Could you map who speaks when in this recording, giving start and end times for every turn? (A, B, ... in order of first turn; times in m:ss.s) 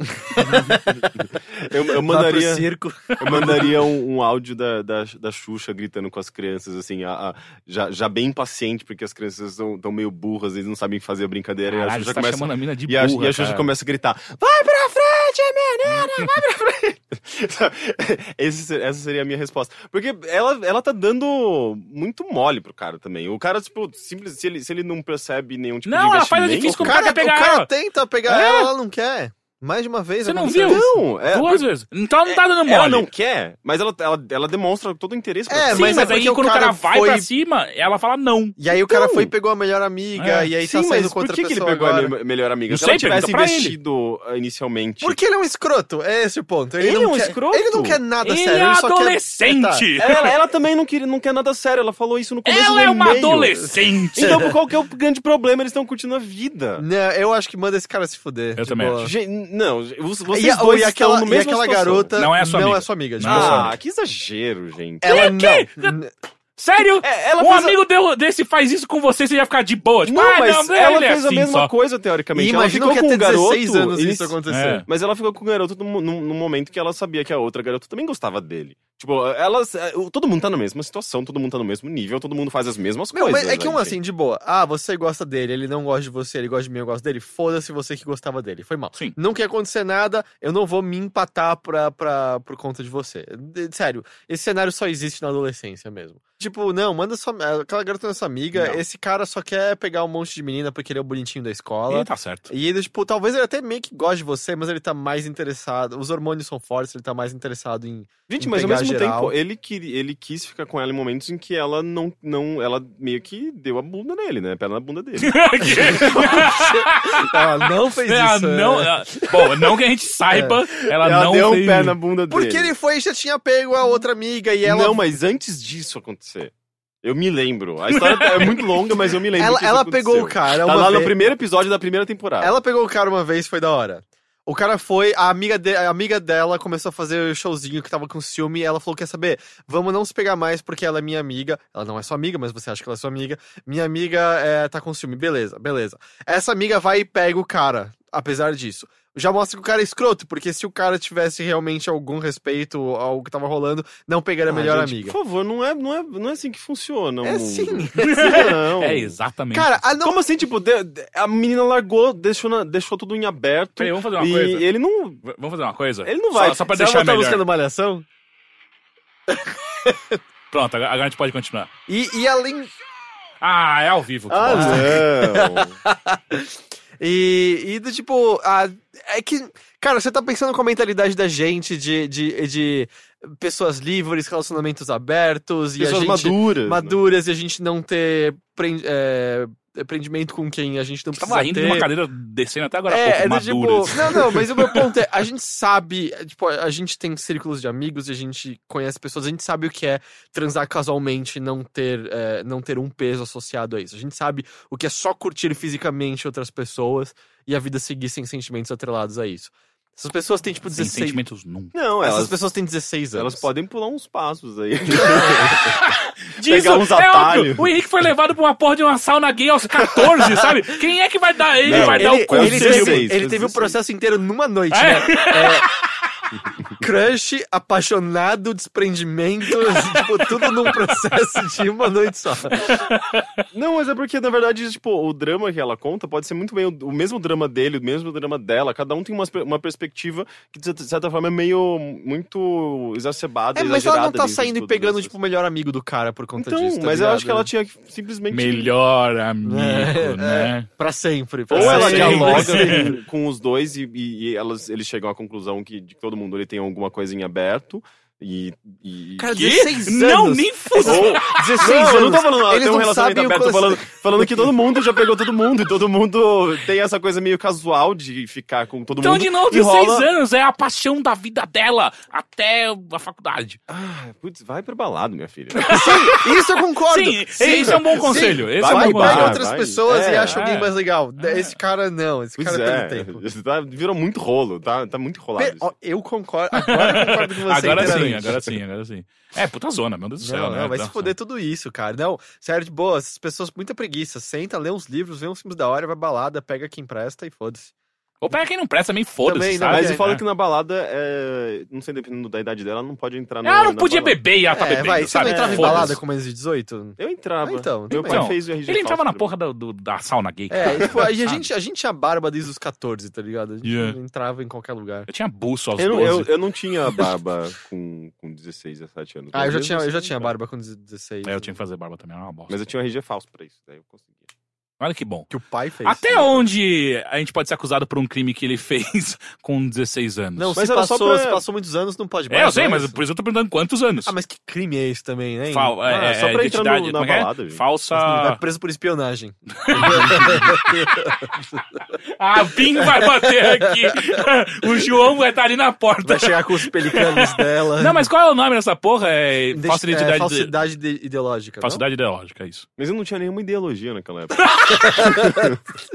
0:00.2-0:01.0 A
0:00.4-0:02.7 B
0:02.1-0:03.7 A
0:03.2-0:27.0 B
0:11.7-0:13.7 C
0:25.9-0:27.7 C
0:26.8-0:30.9 A
0:28.3-0:28.7 C
0:30.2-0:33.1 C
0:30.5-0:31.7 B
0:32.3-0:36.2 B
0:35.5-0:37.3 A
0:35.7-0:38.6 C
0:38.6-0:42.2 A
0:38.7-0:39.3 B
0:40.2-0:40.5 C
0:40.6-0:45.2 B
0:42.7-0:43.8 C
0:45.0-0:49.8 A
0:46.8-0:48.0 B
0:48.2-0:50.3 C
0:50.0-0:56.8 B
0:52.5-0:54.5 C
0:54.2-0:54.5 A
0:56.8-0:59.1 A
0:58.6-0:59.0 C
0:59.0-1:02.2 B
1:00.3-1:03.7 A
1:02.2-1:03.7 C
1:03.3-1:05.4 B
1:05.0-1:06.1 A
1:05.0-1:06.0 C
1:06.6-1:11.7 C
1:07.0-1:07.8 B
1:10.1-1:14.4 B
1:12.4-1:14.9 A
1:14.5-1:14.9 C
1:14.9-1:24.0 B
1:23.1-1:49.3 A
1:38.6-1:38.8 C
1:41.9-1:42.5 C
1:48.3-1:56.5 B
1:55.2-2:02.0 C
1:55.9-1:59.7 A
2:00.3-2:00.6 A
2:00.9-2:02.7 B
2:02.3-2:05.0 A
2:04.6-2:06.5 B
2:07.0-2:12.6 B
2:07.9-2:08.8 C
2:09.4-2:11.1 A
2:12.4-2:35.2 A
2:34.5-2:39.2 B
2:37.2-2:38.4 A
2:38.0-2:39.8 C
2:39.5-2:40.2 A
2:40.0-2:45.2 B
2:43.8-2:44.6 C
2:45.2-2:47.4 C
2:46.0-2:46.6 B
2:46.4-2:48.0 A
2:49.3-2:50.2 A
2:50.5-2:51.7 C
2:51.9-2:52.7 A
2:53.4-2:55.0 C
2:54.3-2:55.8 B
2:54.5-3:11.9 A
3:05.8-3:07.0 B
3:11.2-3:14.8 C
3:12.9-3:31.2 A
3:30.7-3:31.7 C
3:31.7-3:32.4 B
3:32.0-3:33.5 A
3:33.1-3:35.8 B
3:35.7-3:43.1 C
3:36.4-3:37.7 B
3:41.6-3:43.8 B
3:41.7-3:45.7 A
3:44.7-3:45.8 C
3:46.8-3:52.7 A
3:49.6-3:50.9 C
3:52.6-3:53.2 C
3:53.5-4:05.1 B
4:03.6-4:07.5 A
4:06.4-4:08.7 B
4:08.3-4:10.7 C
4:09.4-4:13.0 A
4:11.5-4:19.4 B
4:11.5-4:12.9 C
4:19.2-4:24.5 A
4:19.4-4:21.8 C
4:20.8-4:30.1 B
4:29.0-4:33.6 C
4:33.7-4:36.1 B
4:35.6-4:36.3 C
4:35.7-4:43.2 A
4:36.9-4:39.4 C
4:37.4-4:40.5 B
4:40.3-4:41.6 C
4:42.4-4:45.7 B
4:45.4-4:48.4 A
4:46.6-4:51.1 C
4:47.6-4:48.5 B
4:50.2-4:57.7 A
4:58.2-5:00.2 C
4:59.2-5:00.0 A
4:59.6-5:04.2 B
5:03.4-5:06.0 C
5:04.5-5:08.3 A
5:05.2-5:06.0 B
5:07.0-5:09.3 B
5:08.1-5:11.5 C
5:10.5-5:15.1 A
5:10.8-5:11.0 B
5:13.6-5:14.0 C
5:15.1-5:16.3 C
5:15.8-5:20.3 B
5:19.3-5:21.5 A
5:21.3-5:22.6 C
5:22.5-5:24.3 B
5:24.8-5:25.3 C
5:25.3-5:26.5 A
5:25.8-5:30.5 C
5:30.4-5:33.0 A
5:30.6-5:31.4 B
5:32.3-5:34.1 C
5:34.1-5:35.8 A
5:35.5-5:38.4 C
5:35.8-5:37.6 B
5:38.0-5:41.8 A
5:39.7-5:40.9 C
5:42.2-5:50.5 C
5:42.8-5:43.7 A
5:46.0-5:48.1 A
5:49.5-5:51.8 A
5:51.6-5:52.7 C
5:52.8-5:54.5 B
5:54.4-5:55.5 C
5:55.0-5:55.5 A